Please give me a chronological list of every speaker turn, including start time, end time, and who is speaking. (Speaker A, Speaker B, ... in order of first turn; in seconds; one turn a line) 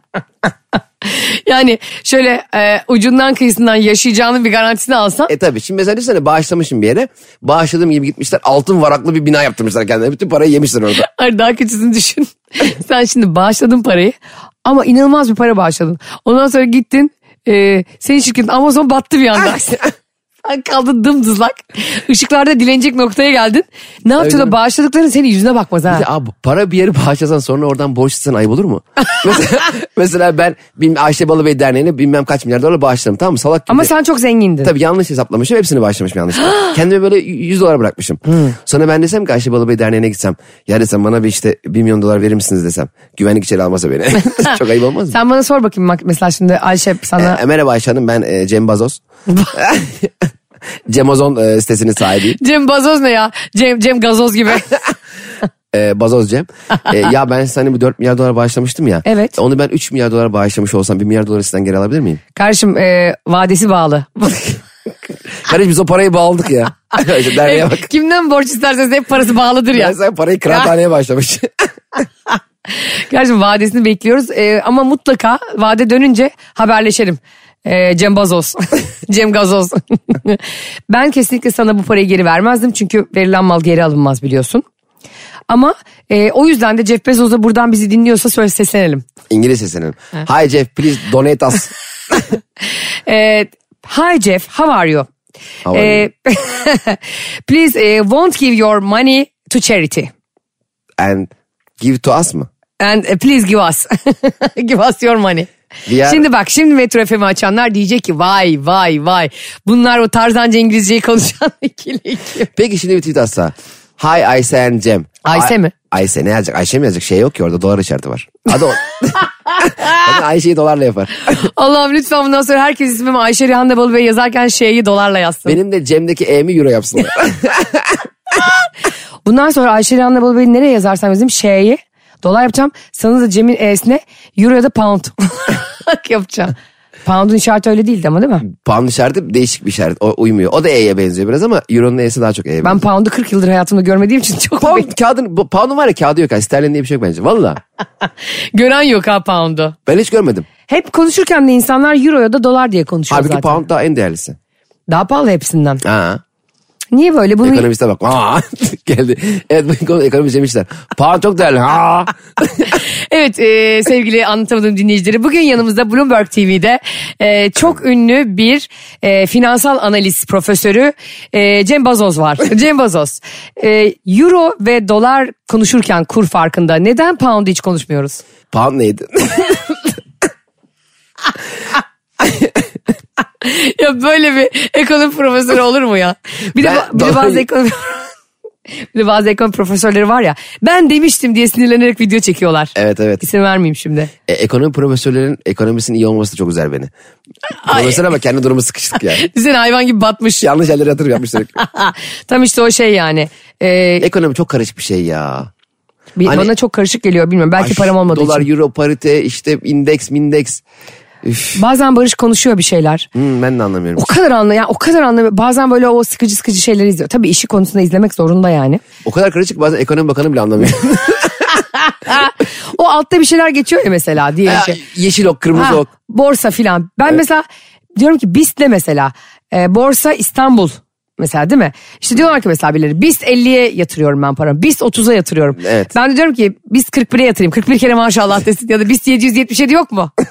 Speaker A: 1.0-5.3
Speaker B: 5.3-11.1
Speaker A: 11.0-19.9
Speaker A: 20.4-26.1
Speaker B: 24.2-24.6
Speaker B: 25.9-33.9
Speaker A: 33.7-34.7
Speaker B: 34.6-45.2
Speaker A: 45.1-47.4
Speaker B: 47.2-49.0
Speaker A: 49.3-49.6
Speaker B: 49.5-50.3
Speaker B: 50.9-52.4
Speaker A: 52.4-54.8
Speaker B: 55.7-62.2
Speaker A: 59.1-59.4
Speaker A: 62.4-64.6
Speaker B: 65.5-67.9
Speaker A: 67.0-70.0
Speaker B: 69.7-71.7
Speaker A: 72.8-84.6
Speaker A: 85.5-89.1
Speaker B: 89.3-92.2
Speaker A: 93.1-95.1
Speaker B: 95.7-96.0
Speaker A: 95.7-100.1
Speaker B: 101.0-102.5
Speaker A: 102.8-105.5
Speaker B: 105.9-106.3
Speaker A: 106.0-112.5
Speaker B: 112.5-121.2
Speaker A: 115.2-115.7
Speaker A: 119.6-120.0
Speaker A: 121.3-125.6
Speaker B: 125.5-128.0
Speaker A: 129.2-138.5
Speaker B: 138.5-142.8
Speaker A: 142.6-144.9
Speaker B: 144.6-147.6
Speaker A: 148.5-149.8
Speaker B: 149.9-150.5
Speaker A: 150.7-153.6
Speaker B: 153.1-154.4
Speaker A: 154.9-155.8
Speaker B: 155.8-156.2
Speaker A: 156.9-157.7
Speaker B: 157.4-162.8
Speaker A: 162.7-178.2
Speaker B: 178.5-180.0
Speaker A: 183.4-188.1
Speaker B: 186.6-187.5
Speaker A: 188.9-194.1
Speaker B: 192.8-193.2
Speaker B: 194.3-196.9
Speaker A: 197.6-198.0
Speaker B: 197.7-199.3
Speaker A: 199.1-200.5
Speaker B: 200.4-201.6
Speaker A: 201.6-204.1
Speaker B: 204.0-205.5
Speaker A: 206.2-208.5
Speaker B: 206.2-206.5
Speaker B: 207.6-210.6
Speaker B: 211.2-211.6
Speaker A: 211.6-213.1
Speaker B: 213.2-214.1
Speaker A: 214.0-218.8
Speaker B: 219.1-221.6
Speaker A: 222.1-224.8
Speaker B: 224.4-225.9
Speaker A: 225.6-227.4
Speaker A: 228.0-240.1
Speaker B: 235.6-235.9